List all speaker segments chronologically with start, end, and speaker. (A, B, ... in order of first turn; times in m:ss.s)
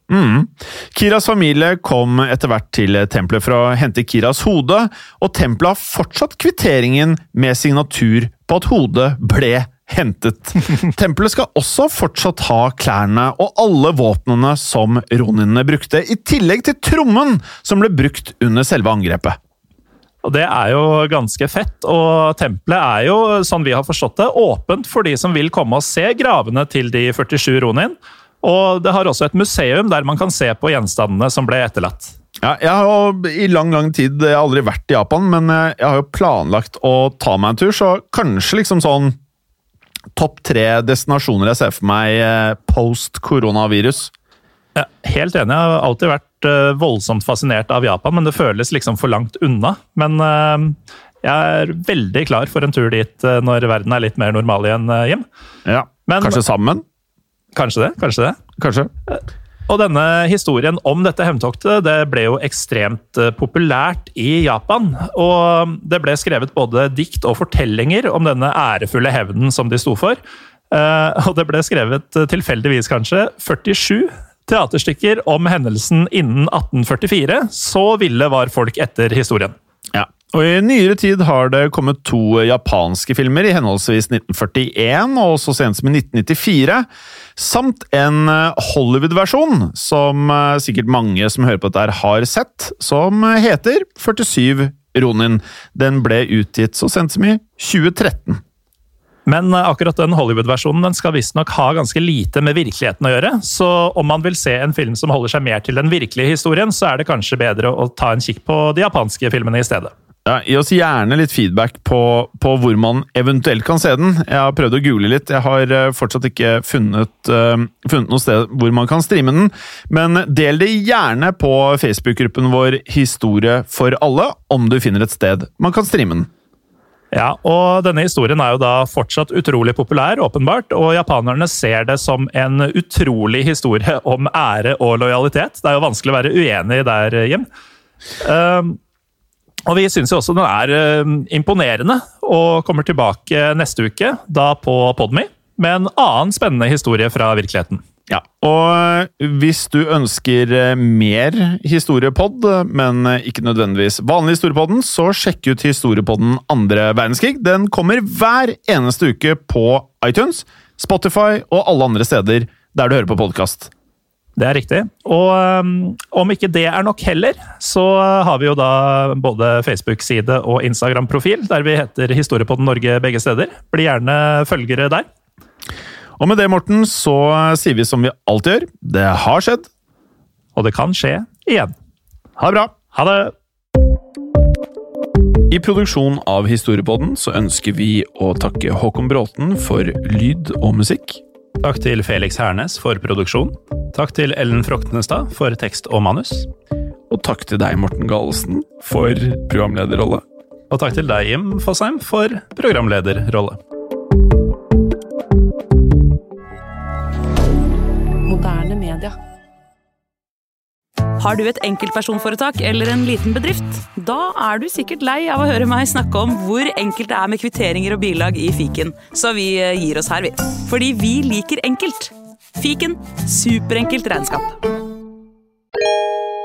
0:00.1-0:19.4 A
0:20.2-0:32.1 B
0:32.4-0:39.2 A
0:40.1-0:44.1 A
0:44.7-0:55.2 B
0:55.6-0:56.8 A
0:56.1-0:56.4 B
0:57.5-0:58.4 B
0:58.6-0:58.9 A
0:59.1-1:10.2 B
1:10.7-1:19.5 B
1:19.9-1:38.4 A
1:39.2-1:49.9 B
1:50.2-2:06.3 A
2:07.1-2:17.5 B
2:18.2-2:18.8 B
2:19.6-2:27.8 B
2:28.1-2:43.7 A
2:44.4-2:55.1 B
2:56.2-2:59.7 A
3:00.6-3:01.7 B
3:02.4-3:02.7 A
3:02.9-3:03.3 B
3:05.5-3:11.2 A
3:11.6-3:16.5 B
3:17.1-3:20.2 A
3:20.7-3:23.6 B
3:28.2-3:29.1 C
3:31.2-3:44.6 C